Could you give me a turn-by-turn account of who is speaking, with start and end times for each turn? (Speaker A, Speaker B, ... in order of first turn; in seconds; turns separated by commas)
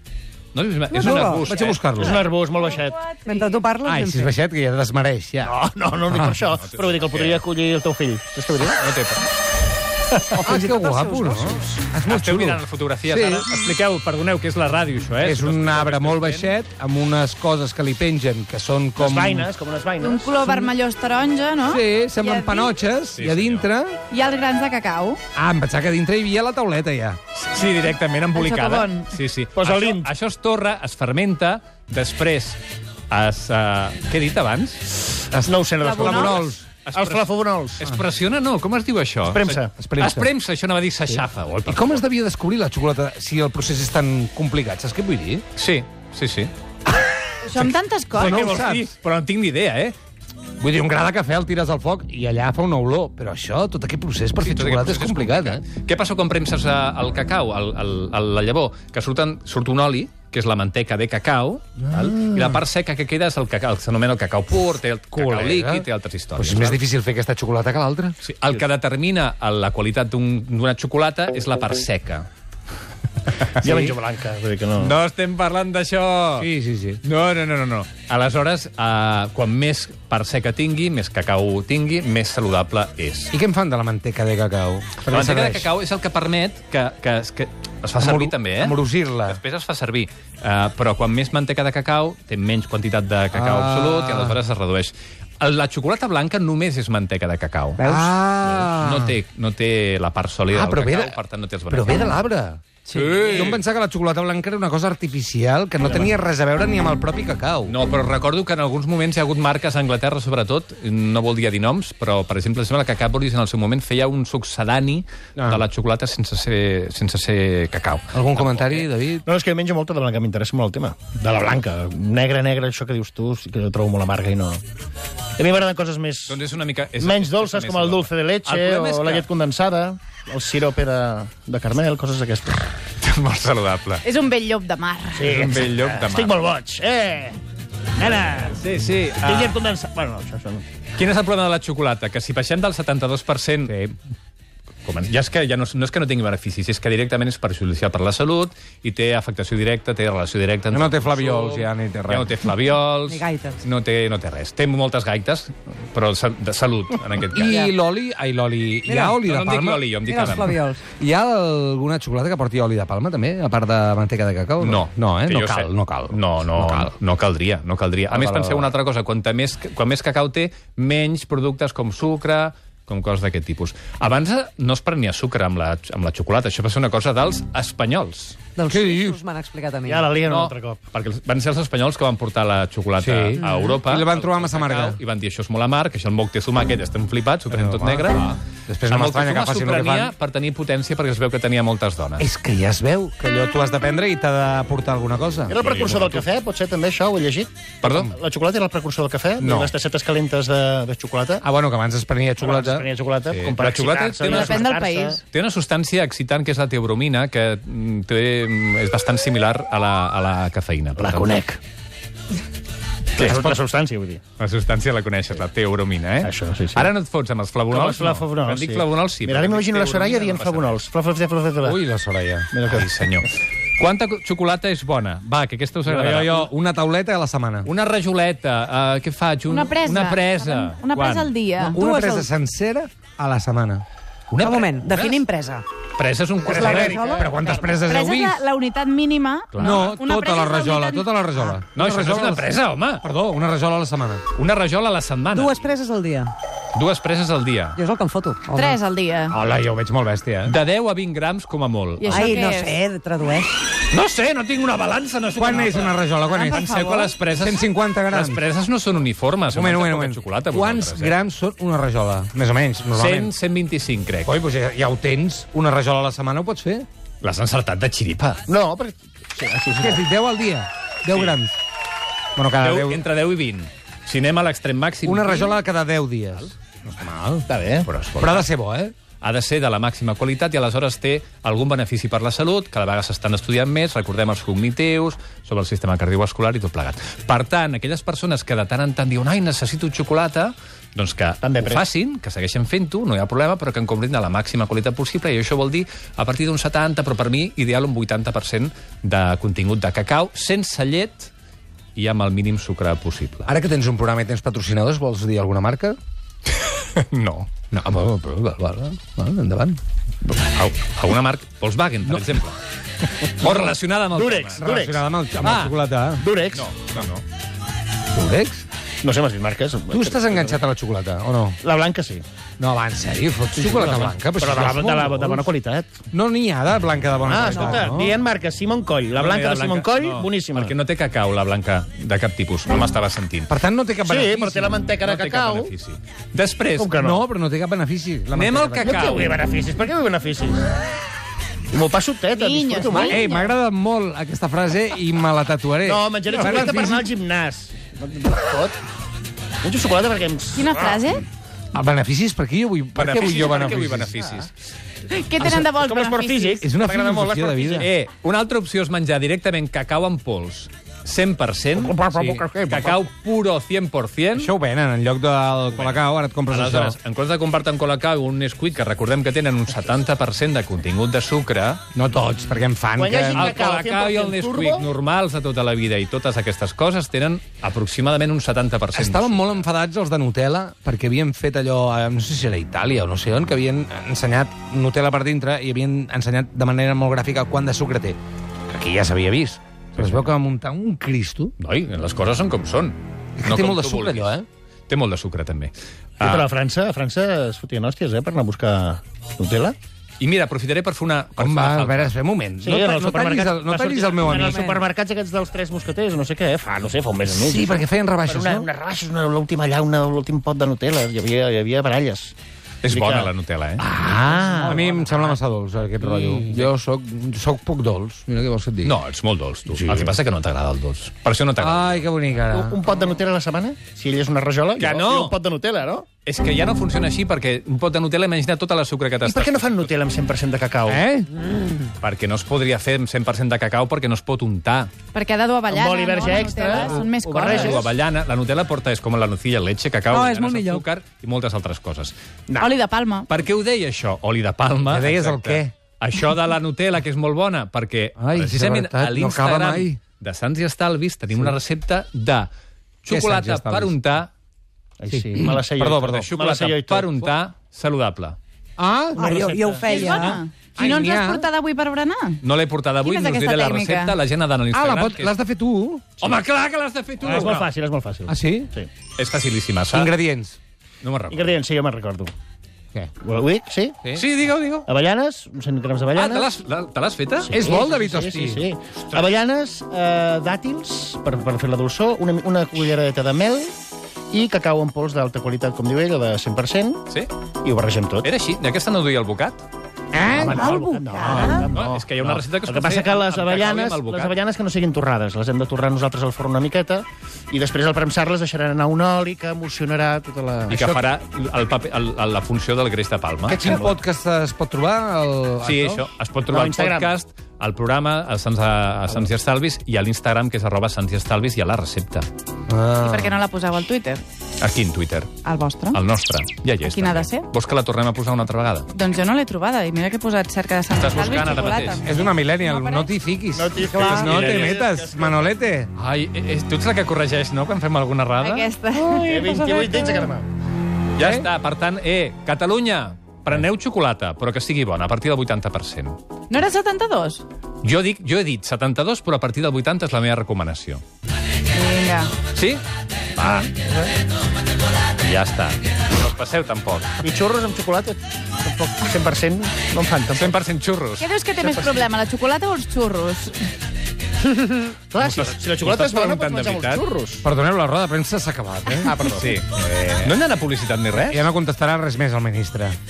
Speaker A: 0.5-2.1, Speaker B: 0.9-1.5, Speaker C: 1.0-2.2, Speaker D: 2.0-3.1, Speaker B: 3.2-4.3, Speaker C: 3.8-5.5, Speaker D: 5.4-8.8, Speaker A: 6.6-7.4, Speaker A: 8.8-9.3, Speaker A: 10.1-10.5, Speaker C: 10.4-13.5, Speaker B: 10.4-11.7, Speaker A: 12.1-16.5, Speaker C: 15.2-19.5, Speaker D: 19.0-20.6, Speaker E: 20.0-22.7, Speaker C: 21.7-24.0, Speaker A: 23.1-23.7, Speaker E: 24.1-25.2, Speaker C: 25.4-27.2, Speaker A: 27.3-35.2, Speaker E: 28.3-29.1, Speaker D: 29.6-30.1, Speaker C: 35.3-36.7, Speaker D: 35.5-37.9, Speaker E: 35.8-36.4, Speaker A: 36.5-42.0, Speaker D: 39.3-39.7, Speaker C: 39.8-40.3, Speaker C: 41.7-45.5, Speaker A: 45.6-46.5, Speaker E: 47.5-48.5, Speaker C: 48.1-48.9, Speaker A: 48.2-50.0, Speaker C: 50.6-55.6, Speaker A: 54.4-66.8, Speaker C: 61.9-62.6, Speaker C: 65.1-68.2, Speaker A: 68.2-72.3, Speaker A: 73.3-74.0, Speaker D: 73.6-75.0, Speaker A: 74.8-76.5, Speaker C: 76.4-77.0, Speaker A: 77.0-83.3, Speaker C: 83.3-85.7, Speaker A: 85.1-97.9, Speaker C: 88.0-89.4, Speaker C: 93.3-94.4, Speaker B: 97.8-98.2, Speaker C: 97.8-99.2, Speaker A: 98.4-102.2, Speaker C: 100.5-102.6, Speaker B: 102.9-103.5, Speaker A: 102.9-103.6, Speaker C: 103.2-107.8, Speaker A: 107.7-118.9, Speaker C: 118.1-119.2, Speaker D: 119.3-124.6, Speaker D: 125.4-126.4, Speaker A: 126.3-129.3, Speaker D: 127.0-132.7, Speaker A: 133.0-134.1, Speaker E: 134.0-135.3, Speaker D: 135.2-137.4, Speaker A: 135.3-136.3, Speaker D: 138.0-138.6, Speaker A: 138.4-139.6, Speaker D: 139.2-140.7, Speaker A: 141.0-143.8, Speaker C: 143.7-143.9, Speaker A: 144.8-157.7, Speaker C: 150.7-152.4, Speaker B: 153.1-153.6, Speaker C: 157.3-160.0, Speaker B: 157.4-157.7, Speaker B: 158.8-159.2, Speaker A: 159.2-160.6, Speaker B: 160.0-160.8, Speaker C: 161.0-166.9, Speaker A: 164.6-178.5, Speaker C: 168.1-168.7, Speaker B: 178.6-180.2, Speaker C: 178.7-179.2, Speaker D: 179.9-180.8, Speaker A: 180.2-192.3, Speaker C: 183.0-185.0, Speaker B: 183.4-183.8, Speaker C: 187.5-190.1, Speaker C: 192.2-196.1, Speaker D: 195.5-201.4, Speaker A: 195.6-196.2, Speaker A: 197.8-198.2, Speaker C: 199.4-199.7, Speaker C: 201.4-202.9, Speaker D: 202.4-205.2, Speaker A: 203.3-204.6, Speaker E: 204.3-205.2, Speaker A: 205.3-211.4, Speaker D: 211.0-211.6, Speaker A: 213.2-213.6, Speaker D: 213.2-214.2, Speaker A: 214.4-220.8, Speaker D: 216.2-216.9, Speaker D: 217.7-221.8, Speaker C: 221.6-222.5, Speaker D: 222.5-222.9, Speaker A: 222.7-226.5, Speaker C: 225.8-227.7, Speaker A: 227.7-231.3, Speaker E: 229.5-231.8, Speaker C: 231.7-233.8, Speaker B: 231.8-232.3, Speaker A: 234.3-235.2, Speaker B: 234.4-235.7, Speaker A: 236.0-237.3, Speaker C: 236.5-238.4, Speaker B: 236.5-237.5, Speaker E: 237.7-241.5, Speaker A: 239.5-240.0, Speaker C: 239.6-244.2, Speaker A: 241.7-243.0, Speaker A: 244.3-245.7, Speaker B: 245.3-246.3, Speaker A: 246.7-247.8, Speaker B: 247.8-248.8, Speaker E: 248.5-249.4, Speaker C: 249.3-250.6, Speaker A: 250.4-252.3, Speaker E: 252.0-252.8, Speaker B: 252.1-253.6, Speaker A: 253.8-261.2, Speaker C: 255.3-256.7, Speaker E: 256.2-257.1, Speaker C: 257.3-258.4, Speaker C: 259.5-263.3, Speaker A: 262.9-264.4, Speaker C: 264.2-266.9, Speaker A: 267.2-268.4, Speaker D: 268.5-270.0, Speaker C: 269.8-271.6, Speaker A: 271.1-271.4, Speaker C: 272.4-273.0, Speaker A: 272.6-275.6, Speaker C: 275.0-277.5, Speaker D: 277.5-277.9, Speaker A: 277.9-278.5, Speaker C: 278.2-278.9, Speaker A: 279.2-301.3, Speaker D: 291.4-291.8, Speaker A: 302.0-303.5, Speaker C: 303.5-306.0, Speaker A: 306.6-307.5, Speaker C: 307.7-309.8, Speaker A: 310.2-312.6, Speaker A: 313.3-314.7, Speaker D: 314.1-315.0, Speaker C: 314.6-316.2, Speaker A: 315.4-315.8, Speaker D: 316.2-316.7, Speaker A: 316.5-317.2, Speaker C: 318.1-318.7, Speaker D: 319.0-320.6, Speaker C: 319.9-321.6, Speaker D: 321.6-322.2, Speaker C: 322.6-325.5, Speaker D: 323.6-326.0, Speaker C: 326.1-328.1, Speaker D: 327.3-330.8, Speaker A: 329.1-333.5, Speaker C: 333.5-334.7, Speaker D: 334.0-335.7, Speaker A: 335.0-337.0, Speaker D: 336.8-337.2, Speaker C: 337.0-339.2, Speaker A: 338.3-339.4, Speaker D: 338.8-340.6, Speaker D: 341.7-343.2, Speaker E: 342.3-343.5, Speaker C: 342.9-347.1, Speaker D: 345.8-348.8, Speaker A: 346.4-346.7, Speaker D: 349.6-350.7, Speaker E: 350.5-351.2, Speaker C: 351.7-354.1, Speaker A: 352.9-354.5, Speaker D: 353.5-354.3, Speaker E: 355.1-356.7, Speaker D: 355.4-357.9, Speaker C: 356.6-357.9, Speaker A: 357.8-364.5, Speaker D: 361.7-363.0, Speaker C: 364.3-367.0, Speaker A: 365.7-371.8, Speaker C: 371.9-373.5, Speaker D: 373.0-374.9, Speaker A: 373.4-379.6, Speaker C: 378.9-388.2, Speaker C: 388.7-391.5, Speaker A: 390.0-390.3, Speaker A: 391.6-394.4, Speaker C: 393.4-394.5, Speaker A: 394.9-396.5, Speaker D: 396.2-399.8, Speaker A: 400.2-402.1, Speaker C: 401.4-404.8, Speaker D: 402.6-412.3, Speaker B: 404.3-404.8, Speaker C: 407.3-408.7, Speaker A: 412.8-413.9, Speaker D: 412.9-413.3, Speaker C: 413.8-419.0, Speaker D: 414.1-415.4, Speaker D: 416.0-416.4, Speaker A: 418.8-422.1, Speaker C: 419.7-420.1, Speaker C: 421.6-422.8, Speaker D: 422.5-426.1, Speaker A: 424.8-425.4, Speaker A: 426.2-429.9, Speaker D: 429.2-431.1, Speaker C: 430.9-431.3, Speaker A: 432.0-434.9, Speaker E: 435.1-437.8, Speaker D: 435.7-437.9, Speaker A: 436.9-442.1, Speaker B: 440.1-440.9, Speaker E: 442.6-443.3, Speaker A: 443.3-452.5, Speaker C: 444.9-445.7, Speaker C: 448.2-450.0, Speaker A: 453.0-454.3, Speaker C: 453.1-454.0, Speaker D: 455.0-457.2, Speaker C: 455.1-456.3, Speaker A: 455.5-458.4, Speaker C: 458.8-459.5, Speaker B: 459.2-460.4, Speaker D: 459.2-460.4, Speaker E: 459.8-462.4, Speaker C: 460.8-461.5, Speaker A: 462.4-465.3, Speaker E: 463.0-464.1, Speaker C: 464.7-466.3, Speaker A: 466.2-467.7, Speaker D: 467.2-468.9, Speaker C: 468.3-468.7, Speaker A: 469.2-470.1, Speaker C: 469.9-470.6, Speaker A: 471.0-471.6, Speaker D: 471.3-472.3, Speaker D: 473.2-474.0, Speaker A: 474.1-474.9, Speaker D: 474.9-476.5, Speaker A: 476.2-477.5, Speaker D: 477.4-483.7, Speaker C: 477.5-478.6, Speaker D: 484.3-487.0, Speaker D: 487.6-488.3, Speaker A: 488.2-489.7, Speaker C: 490.1-490.7, Speaker D: 490.2-500.8, Speaker B: 490.4-491.6, Speaker A: 491.2-494.3, Speaker A: 500.7-503.9, Speaker C: 500.7-501.1, Speaker C: 503.5-506.1, Speaker D: 503.6-504.0, Speaker A: 505.6-512.3, Speaker D: 506.5-507.1, Speaker C: 512.7-513.4, Speaker E: 513.0-514.2, Speaker A: 514.6-515.4, Speaker E: 515.4-516.0, Speaker A: 515.9-518.9, Speaker E: 516.8-517.5, Speaker E: 518.9-523.1, Speaker A: 521.0-522.1, Speaker C: 522.0-525.9, Speaker D: 523.5-525.5, Speaker A: 524.0-524.6, Speaker A: 526.0-528.7, Speaker E: 528.4-529.4, Speaker D: 529.2-530.5, Speaker B: 529.2-530.1, Speaker A: 531.1-536.2, Speaker C: 531.2-531.5, Speaker E: 536.5-537.4, Speaker A: 537.8-541.0, Speaker E: 541.7-542.3, Speaker A: 542.5-542.8, Speaker A: 543.4-543.7, Speaker D: 543.4-544.1, Speaker A: 545.2-547.2, Speaker D: 547.2-550.6, Speaker A: 550.3-551.3, Speaker E: 551.2-553.6, Speaker D: 551.6-552.1, Speaker D: 555.1-557.5, Speaker A: 555.2-557.0, Speaker C: 557.4-560.3, Speaker D: 559.0-559.6, Speaker A: 559.3-561.5, Speaker C: 561.2-563.0